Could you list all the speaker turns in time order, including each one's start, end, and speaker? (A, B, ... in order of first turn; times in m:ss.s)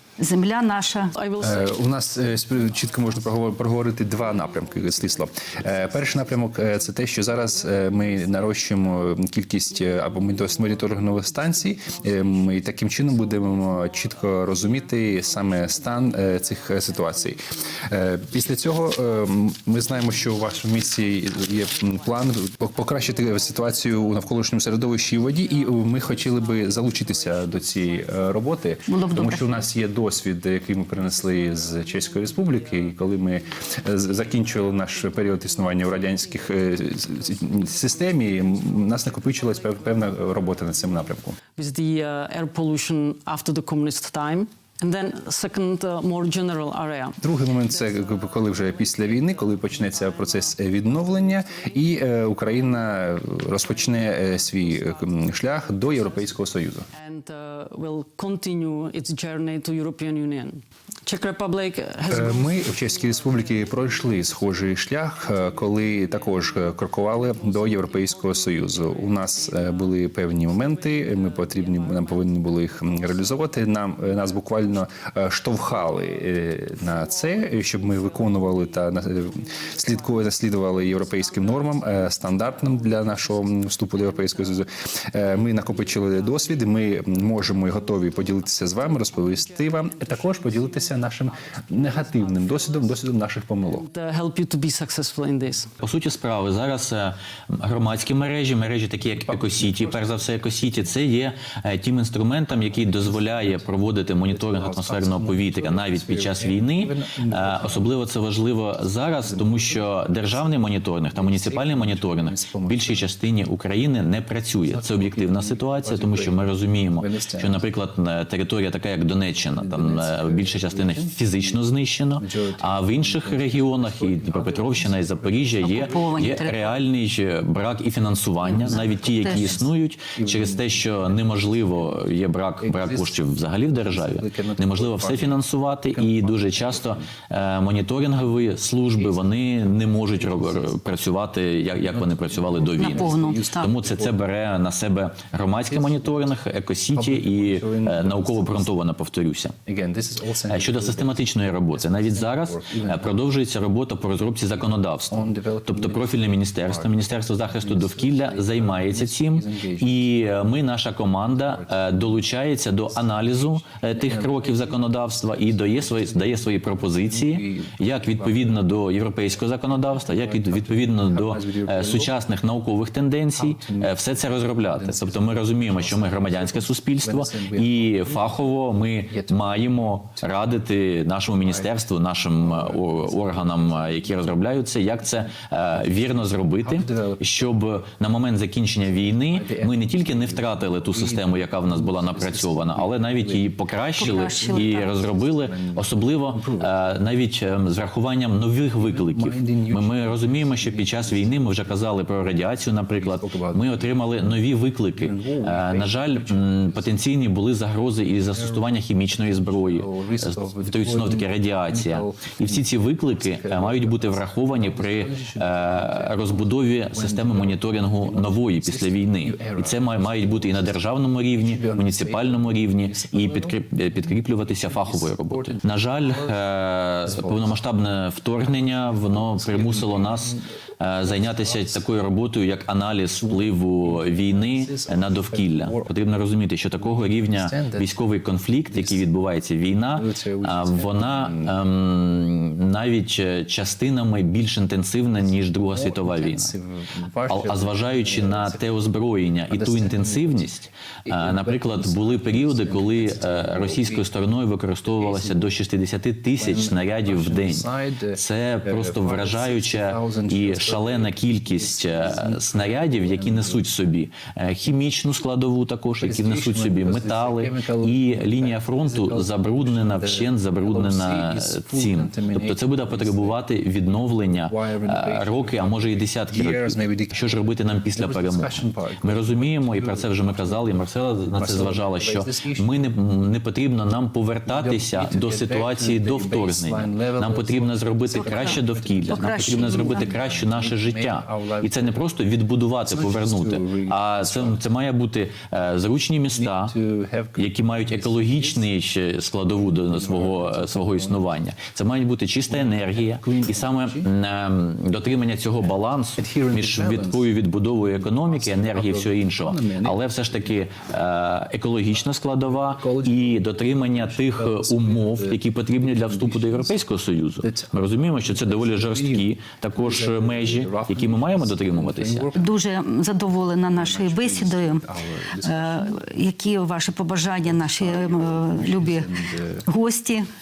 0:00.2-0:01.1 A
0:01.1-0:29.8 B
0:01.4-0:41.4 C
0:28.9-0:29.6 A
0:30.6-0:53.0 B
0:47.2-0:56.9 C
0:53.5-1:14.3 B
1:02.1-1:33.9 C
1:15.5-1:35.7 B
1:35.8-2:29.6 D
1:39.0-1:40.9 C
1:42.5-1:48.0 C
1:49.2-1:50.4 C
1:51.1-1:53.1 C
1:54.6-1:56.4 C
1:57.0-1:57.7 C
1:59.5-2:01.6 C
2:02.2-2:06.5 C
2:05.6-2:06.8 A
2:08.4-2:09.6 A
2:08.4-2:17.1 C
2:18.1-2:21.1 C
2:21.7-2:24.2 C
2:22.8-2:23.7 A
2:25.7-2:26.4 C
2:26.9-2:28.7 C
2:29.7-2:33.2 C
2:30.5-4:06.5 D
2:34.6-2:40.3 C
2:41.3-2:48.7 C
2:49.8-2:52.2 C
2:53.3-2:58.3 C
2:59.1-3:00.3 C
3:01.4-3:01.8 C
3:02.4-3:06.1 C
3:06.6-3:07.2 C
3:08.9-3:16.7 C
3:14.0-3:14.9 A
3:18.8-3:24.4 C
3:25.0-3:27.0 C
3:28.1-3:40.8 C
3:41.4-3:46.4 C
3:47.0-3:47.6 C
3:48.4-3:50.5 C
3:51.0-3:51.9 C
3:53.1-3:55.9 C
3:56.8-3:58.0 C
3:58.7-3:59.1 C
3:59.9-4:01.6 C
4:05.2-4:08.6 C
4:07.3-4:56.7 D
4:09.5-4:14.1 C
4:14.9-4:15.6 C
4:16.4-4:23.7 C
4:26.0-4:33.4 C
4:34.4-4:42.9 C
4:44.5-4:52.1 C
4:48.1-4:50.1 A
4:52.8-4:54.6 C
4:56.3-4:58.7 C
4:57.4-5:22.3 D
4:59.6-5:01.3 C
5:02.5-5:04.1 C
5:06.2-5:10.6 C
5:12.4-5:16.8 C
5:17.4-5:22.5 C
5:22.4-5:24.8 A
5:23.7-5:26.0 C
5:25.4-5:29.1 A
5:27.4-5:29.7 C
5:29.7-5:30.3 A